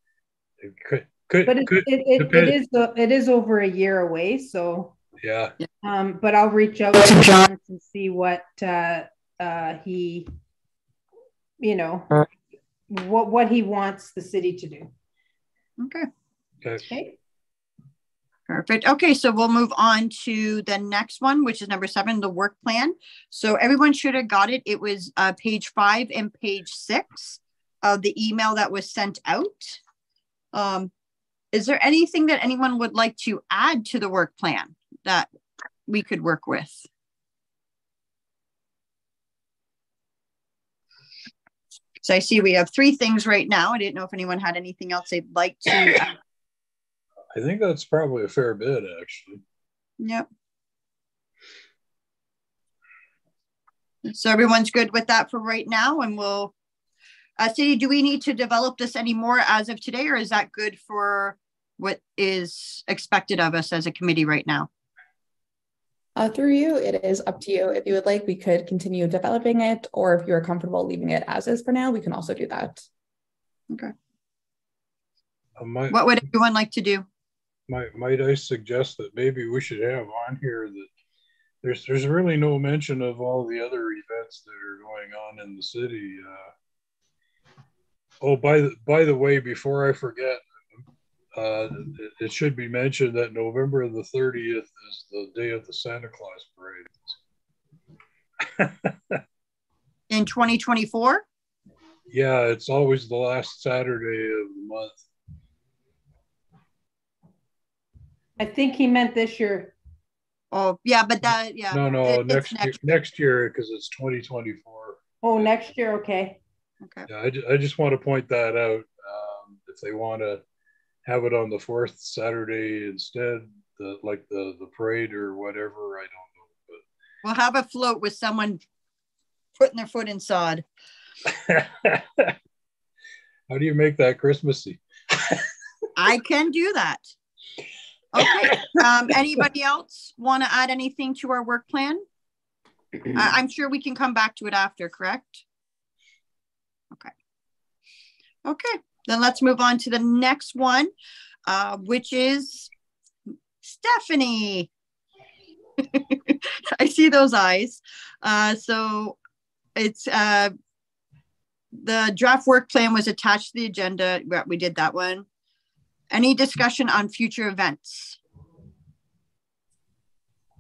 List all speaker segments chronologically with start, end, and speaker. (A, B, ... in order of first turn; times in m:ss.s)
0:00.6-0:02.6 A
0:01.4-0:05.0 B
0:05.2-0:05.5 A
0:05.8-0:10.3 B
0:11.6-0:12.2 B
0:12.9-0:14.9 B
0:15.8-0:16.1 C
0:16.9-0:17.2 B
0:18.5-0:29.8 C
0:30.5-0:30.9 C
0:31.5-0:35.3 C
0:35.9-0:36.8 C
0:42.0-0:46.2 C
0:47.3-0:49.4 A
0:50.0-0:50.3 C
0:54.0-0:56.5 C
0:57.4-1:04.7 C
1:06.2-1:12.8 D
1:15.6-1:16.0 A
1:15.9-1:17.1 C
1:17.7-1:20.9 A
1:21.6-1:26.5 A
1:28.2-1:30.5 A
1:31.4-1:37.2 A
1:38.4-1:39.2 A
1:40.1-1:41.2 C
1:42.1-1:45.0 A
1:48.4-1:49.8 B
1:50.5-1:52.8 C
1:51.7-1:55.0 A
1:55.2-1:56.4 B
1:57.1-2:00.4 A
2:01.1-2:06.8 A
2:07.2-2:08.6 C
2:09.6-2:10.6 C
2:11.3-2:12.4 A
2:13.5-2:15.5 A
2:16.0-2:17.1 C
2:18.1-2:22.0 C
2:23.1-2:25.4 C
2:28.4-2:30.9 C
2:31.5-2:32.7 C
2:33.6-2:34.7 C
2:35.8-2:39.2 C
2:39.8-2:40.5 C
2:41.8-2:45.2 C
2:46.1-2:48.2 C